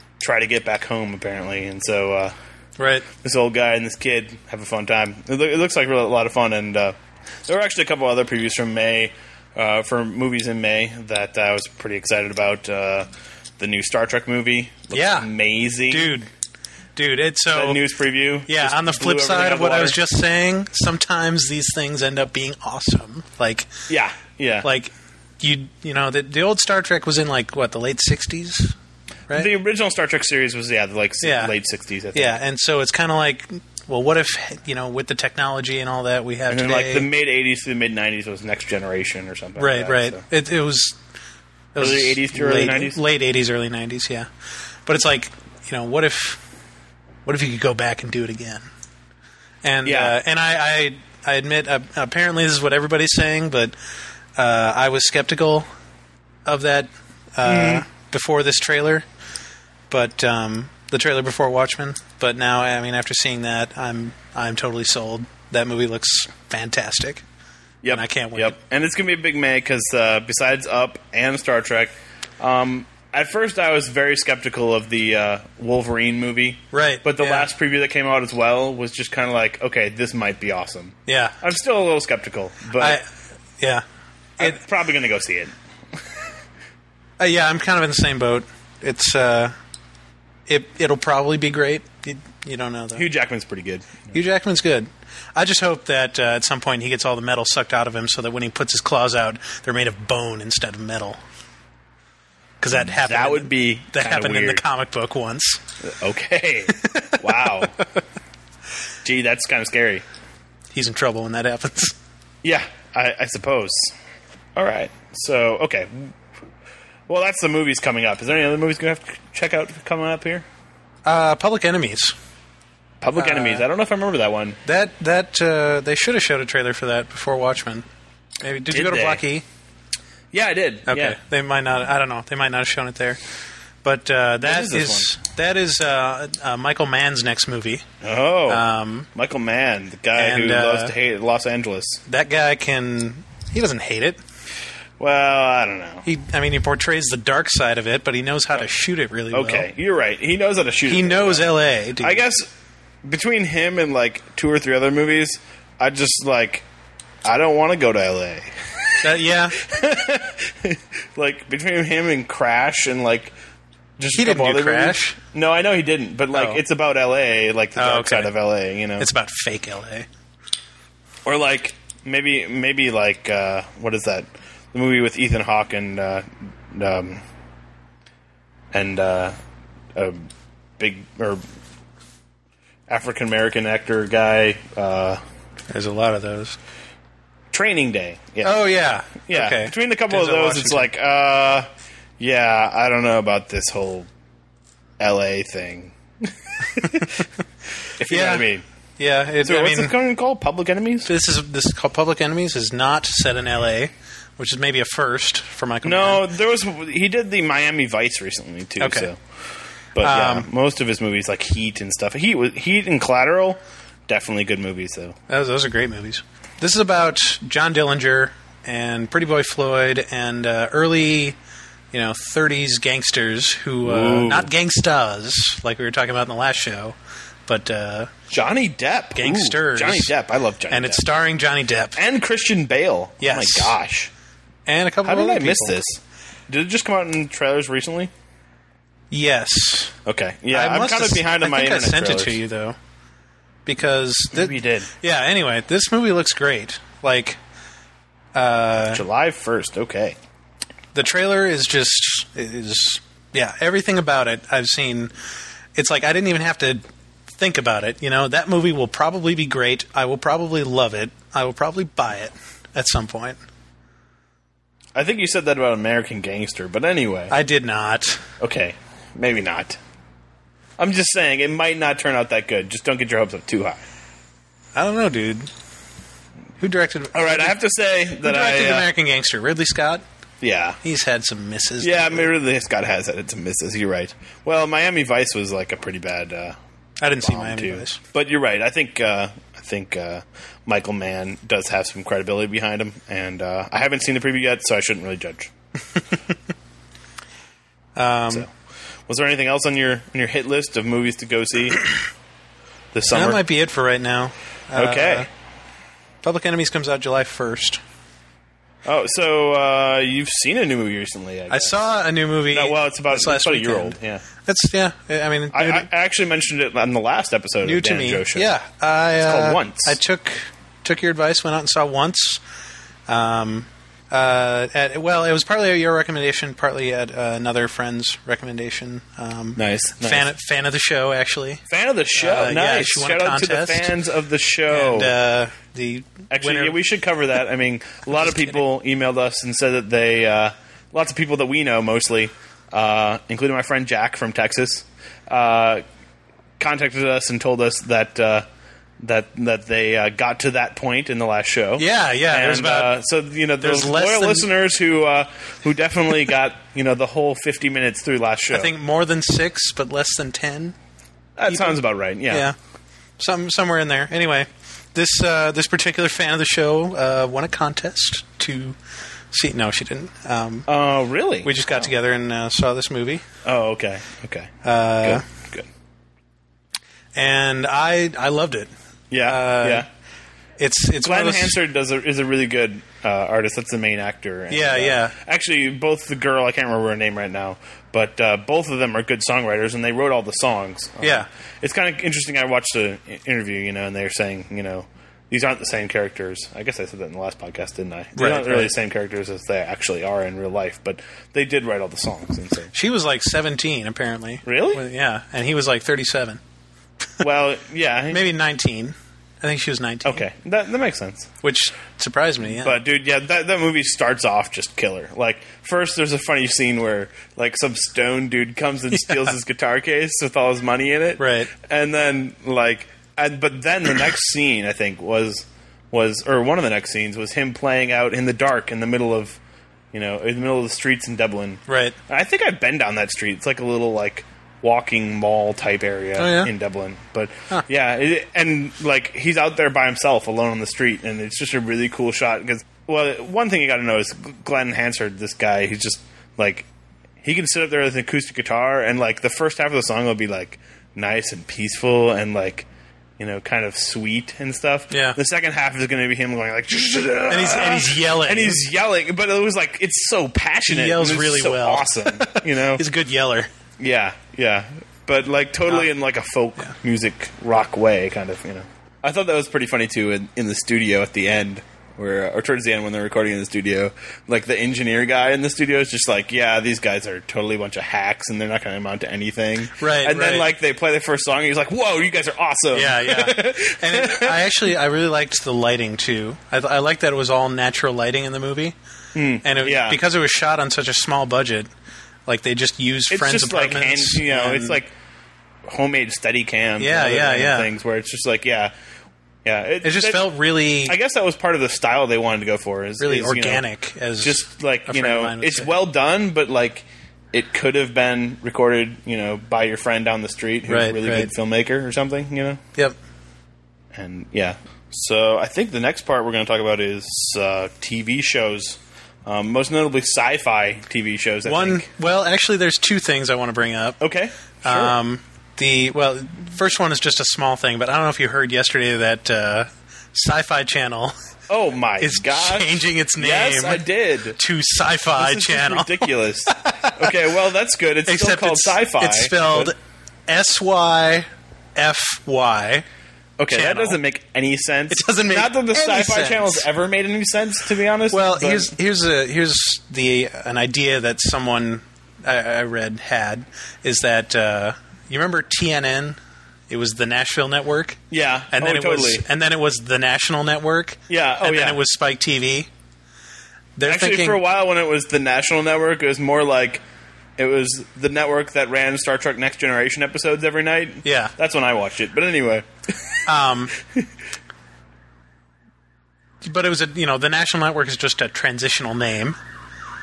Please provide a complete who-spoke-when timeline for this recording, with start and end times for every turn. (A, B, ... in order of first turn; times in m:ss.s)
0:00.2-0:02.3 A
0:02.8-0:03.1 B
0:03.2-0:06.9 A
0:07.4-0:13.1 A
0:13.6-0:16.1 A
0:14.9-0:15.3 B
0:15.9-0:16.3 B
0:17.0-0:17.8 B
0:17.5-0:20.0 A
0:18.5-0:23.7 B
0:23.9-0:24.7 A
0:24.6-0:28.7 B
0:29.3-0:32.4 A
0:31.2-0:31.5 B
0:32.1-0:37.1 B
0:36.5-0:40.2 A
0:39.6-0:41.0 B
0:41.7-0:44.3 B
0:41.8-0:43.0 A
0:44.8-0:46.4 B
0:47.2-0:48.7 B
0:49.6-0:53.7 B
0:49.8-0:50.2 A
0:54.4-0:55.6 B
0:56.4-0:59.0 B
0:57.4-0:57.8 A
0:59.9-1:07.2 B
1:07.8-1:23.0 A
1:07.9-1:08.6 B
1:16.7-1:17.5 B
1:21.1-1:21.4 B
1:22.8-1:23.0 B
1:24.4-1:25.5 A
1:27.2-1:29.5 B
1:30.5-1:33.0 B
1:33.0-1:34.2 A
1:34.1-1:41.2 B
1:42.6-1:45.6 B
1:43.0-1:44.6 A
1:45.8-1:47.8 A
1:46.8-1:47.5 B
1:49.0-1:50.0 A
1:50.7-1:51.9 B
1:52.4-1:53.9 A
1:54.5-1:56.1 A
1:57.1-2:00.4 A
2:01.0-2:02.1 B
2:03.0-2:04.6 A
2:03.1-2:03.6 B
2:04.6-2:07.8 B
2:08.4-2:09.4 B
2:08.7-2:09.2 A
2:10.3-2:11.2 A
2:10.9-2:13.2 B
2:13.8-2:17.8 B
2:14.4-2:15.1 A
2:18.0-2:22.0 A
2:18.5-2:19.1 B
2:20.2-2:20.9 B
2:22.1-2:24.2 B
2:25.0-2:26.0 A
2:26.0-2:29.7 B
2:29.3-2:32.5 A
2:30.9-2:32.2 B
2:33.0-2:36.6 A
2:37.2-2:43.3 A
2:39.0-2:39.6 B
2:44.0-2:49.1 A
2:44.1-2:45.2 B
2:46.3-2:46.6 B
2:47.8-2:48.3 B
2:49.0-2:50.1 B
2:51.2-2:57.2 A
2:58.7-2:59.4 A
2:59.9-3:00.3 A
3:00.8-3:01.4 A
3:02.9-3:05.2 A
3:05.7-3:06.6 B
3:07.5-3:08.6 A
3:08.4-3:10.9 B
3:09.3-3:14.1 A
3:15.0-3:17.2 A
3:18.0-3:18.6 A
3:18.1-3:19.9 B
3:19.4-3:21.1 A
3:21.1-3:26.2 B
3:25.8-3:29.2 A
3:28.8-3:29.1 B
3:29.9-3:35.2 A
3:30.0-3:30.5 B
3:35.3-3:41.4 B
3:41.9-3:46.9 B
3:43.8-3:44.5 A
3:47.5-3:48.1 B
3:48.3-3:51.0 A
3:49.2-3:50.1 B
3:50.7-3:52.0 B
3:52.0-3:54.1 A
3:53.2-3:53.8 B
3:54.6-3:55.8 B
3:55.0-3:58.1 A
3:59.1-3:59.9 B
4:00.0-4:02.4 A
4:00.5-4:02.8 B
4:03.6-4:07.4 B
4:04.3-4:04.9 A
4:08.3-4:09.0 B
4:08.9-4:10.2 A
4:10.9-4:15.1 B
4:15.7-4:16.8 B
4:17.4-4:23.4 B
4:24.9-4:27.3 A
4:27.3-4:28.2 B
4:28.4-4:29.8 A
4:30.8-4:33.8 A
4:34.8-4:35.5 B
4:36.6-4:37.6 B
4:37.1-4:38.9 A
4:38.2-4:40.0 B
4:40.4-4:40.8 A
4:40.8-4:42.3 B
4:41.8-4:46.6 A
4:47.0-4:48.0 B
4:47.2-4:55.5 A
4:58.0-4:58.5 B
4:59.1-5:01.8 A
5:02.9-5:03.4 A
5:03.1-5:05.3 B
5:04.7-5:05.3 A
5:06.2-5:07.8 B
5:08.8-5:11.8 A
5:11.5-5:15.9 B
5:12.5-5:14.2 A
5:15.5-5:18.5 A
5:17.6-5:22.4 B
5:19.2-5:20.0 A
5:23.1-5:33.9 B
5:29.6-5:30.3 A
5:31.7-5:35.1 A
5:34.7-5:36.8 B
5:36.3-5:45.8 A
5:46.6-5:48.4 A
5:49.0-5:58.7 A
5:51.8-5:53.0 B
5:53.6-5:54.5 B
5:58.5-6:00.7 B
6:01.4-6:02.5 A
6:01.5-6:01.8 B
6:02.3-6:02.6 B
6:03.2-6:08.8 B
6:09.3-6:10.7 B
6:10.7-6:11.9 A
6:11.4-6:13.2 B
6:13.4-6:15.7 A
6:14.6-6:15.2 B
6:17.2-6:18.7 B
6:19.1-6:19.9 A
6:19.2-6:19.9 B
6:20.6-6:21.6 B
6:21.0-6:42.7 A
6:24.5-6:25.2 B
6:31.0-6:31.3 B
6:38.2-6:38.7 B
6:42.7-6:46.4 B
6:44.4-6:44.8 A
6:47.2-6:48.2 A
6:48.1-6:50.2 B
6:50.0-6:51.3 A
6:51.4-6:52.8 B
6:52.6-7:09.4 A
6:58.9-6:59.3 B
7:01.2-7:01.5 B
7:09.9-7:26.6 A
7:11.7-7:12.0 B
7:16.2-7:16.5 B
7:27.2-7:32.7 A
7:33.2-7:42.8 A
7:34.9-7:35.2 B
7:37.3-7:38.7 B
7:40.6-7:43.5 B
7:43.8-8:04.4 A
7:59.8-8:00.5 B
8:02.7-8:08.7 B
8:09.1-8:10.0 A
8:09.4-8:11.7 B
8:12.3-8:14.8 B
8:13.1-8:14.9 A
8:15.6-8:18.7 A
8:16.8-8:17.7 B
8:19.4-8:20.2 A
8:19.8-8:21.0 B
8:20.8-8:23.6 A
8:23.0-8:25.7 B
8:24.2-8:32.6 A
8:30.7-8:31.3 B
8:33.9-8:41.9 A
8:41.4-8:44.0 B
8:44.0-8:45.0 A
8:44.6-8:51.1 B
8:51.5-8:54.4 A
8:52.0-8:53.8 B
8:54.4-8:57.1 B
8:55.2-8:59.7 A
8:58.0-8:59.8 B
9:00.3-9:02.8 B
9:03.4-9:08.7 A
9:03.5-9:04.0 B
9:04.9-9:06.6 B
9:08.1-9:16.2 B
9:16.7-9:22.7 B
9:18.1-9:19.2 A
9:21.1-9:21.8 A
9:23.8-9:24.4 B
9:23.9-9:26.8 A
9:27.4-9:33.2 A
9:31.0-9:31.3 B
9:33.2-9:33.7 B
9:36.4-9:39.4 B